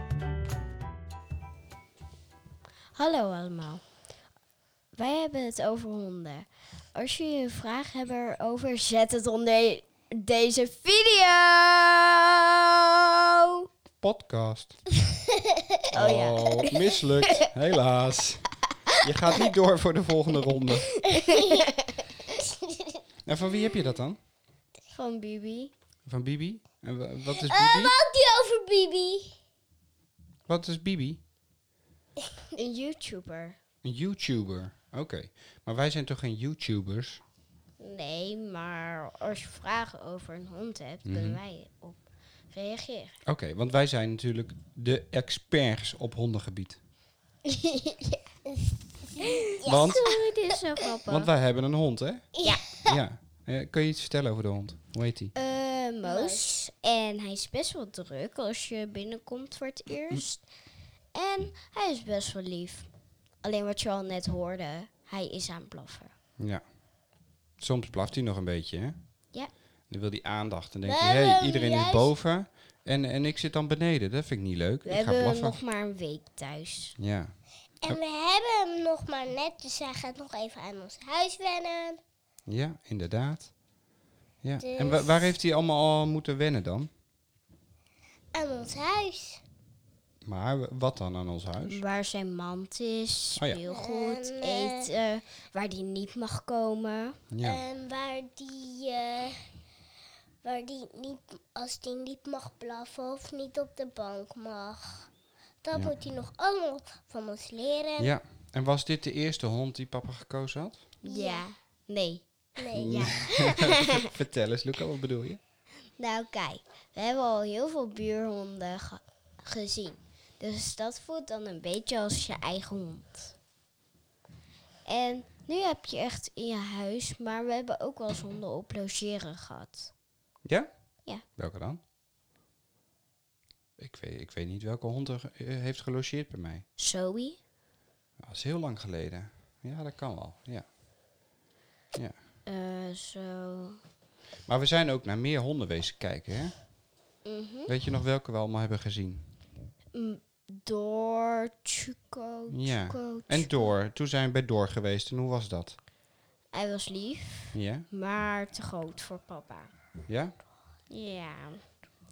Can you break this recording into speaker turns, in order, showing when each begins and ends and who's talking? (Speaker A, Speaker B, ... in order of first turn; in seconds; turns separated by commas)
Speaker A: 3.0-3.8, Speaker A: 5.0-13.7, Speaker B: 14.0-14.8, Speaker A: 15.9-16.8, Speaker B: 15.9-18.5, Speaker B: 19.0-20.9, Speaker A: 21.0-21.9, Speaker C: 21.3-21.7, Speaker C: 22.4-23.0, Speaker B: 23.3-24.2, Speaker A: 24.9-25.7, Speaker B: 26.1-27.9, Speaker C: 27.3-29.4, Speaker B: 30.5-31.2, Speaker A: 32.5-33.6, Speaker B: 33.8-37.2, Speaker A: 37.8-43.1, Speaker B: 41.0-41.4, Speaker B: 43.3-46.8, Speaker A: 47.5-48.2, Speaker C: 48.5-50.6, Speaker B: 49.6-50.1, Speaker A: 49.9-51.3, Speaker B: 51.1-52.3, Speaker C: 52.4-53.0, Speaker B: 52.9-55.3, Speaker A: 55.4-60.4, Speaker C: 56.0-56.7, Speaker A: 61.1-62.9, Speaker A: 63.4-66.1, Speaker B: 67.6-69.0, Speaker B: 69.9-75.6, Speaker C: 70.8-72.1, Speaker A: 74.8-77.0, Speaker B: 77.0-77.3, Speaker C: 77.8-82.0, Speaker B: 82.5-83.5, Speaker B: 84.4-86.9, Speaker C: 84.6-85.3, Speaker C: 88.3-89.4, Speaker B: 90.2-91.8, Speaker A: 91.7-97.2, Speaker C: 93.7-94.9, Speaker B: 97.3-97.6, Speaker C: 97.4-99.4, Speaker C: 100.4-105.1, Speaker C: 105.6-108.1, Speaker B: 108.0-110.8, Speaker A: 111.0-114.1, Speaker C: 111.1-111.5, Speaker C: 112.6-113.4, Speaker B: 112.8-115.4, Speaker A: 116.0-123.3, Speaker A: 124.9-129.9, Speaker B: 131.4-131.8, Speaker B: 133.8-136.7, Speaker A: 136.8-137.4, Speaker B: 138.2-140.7, Speaker A: 142.5-143.8, Speaker B: 144.5-146.5, Speaker A: 147.2-147.7, Speaker B: 147.7-149.3, Speaker A: 149.9-153.7, Speaker B: 152.5-155.8, Speaker A: 156.5-159.7, Speaker B: 157.5-157.9, Speaker B: 160.1-160.3, Speaker A: 160.9-161.6